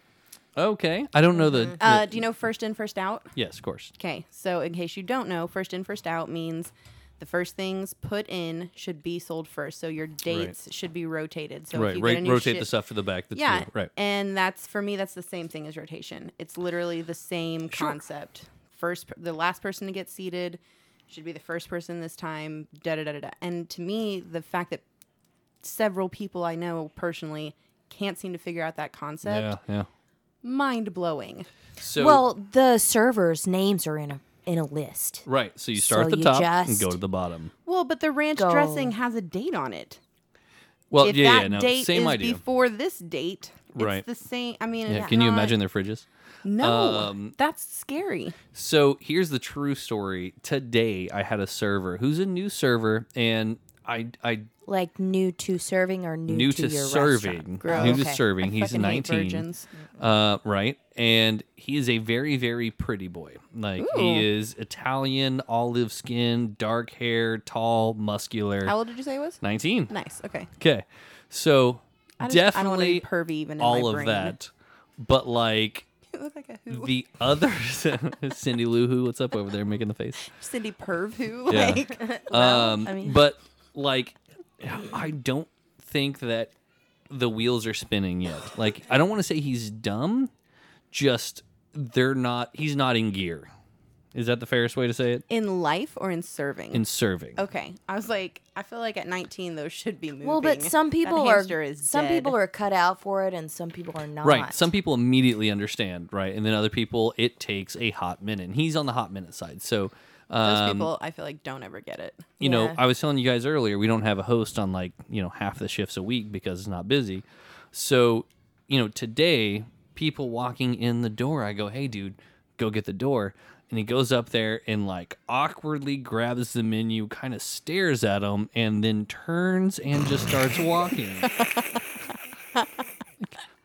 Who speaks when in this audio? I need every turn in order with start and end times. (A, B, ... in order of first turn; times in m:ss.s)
0:00.6-0:02.3 A
0:01.4-0:01.8 B
0:01.8-0:03.3 C
0:03.3-0:03.9 A
0:04.0-0:12.7 C
0:10.3-0:10.5 A
0:11.7-0:13.9 A
0:13.3-0:24.8 C
0:17.7-0:18.0 A
0:25.6-0:29.5 C
0:29.2-0:29.9 A
0:30.4-0:31.5 C
0:31.8-0:32.2 A
0:32.0-0:37.0 B
0:35.2-0:37.5 A
0:37.6-0:40.0 C
0:38.4-0:38.9 B
0:40.9-0:42.4 A
0:41.0-0:45.6 C
0:43.7-0:44.0 A
0:44.9-0:46.0 A
0:44.9-0:45.2 B
0:46.4-0:48.4 C
0:46.6-0:47.4 A
0:48.5-0:54.5 A
0:54.6-0:58.2 B
0:56.3-0:59.4 A
0:57.6-0:59.7 C
1:00.0-1:08.7 A
1:03.8-1:04.3 C
1:08.6-1:10.5 C
1:09.4-1:09.9 A
1:10.6-1:13.0 A
1:12.2-1:14.3 C
1:13.6-1:15.9 A
1:16.1-1:16.9 C
1:16.7-1:20.3 A
1:20.2-1:23.0 C
1:21.5-1:26.5 A
1:22.0-1:23.2 B
1:27.1-1:30.3 A
1:30.9-1:33.5 A
1:34.1-1:35.2 A
1:35.3-1:36.8 C
1:36.7-1:37.4 A
1:37.4-1:42.3 C
1:40.2-1:44.6 B
1:44.2-1:50.9 A
1:50.4-1:52.4 C
1:52.4-1:52.8 B
1:52.4-2:11.3 A
2:11.4-2:11.6 C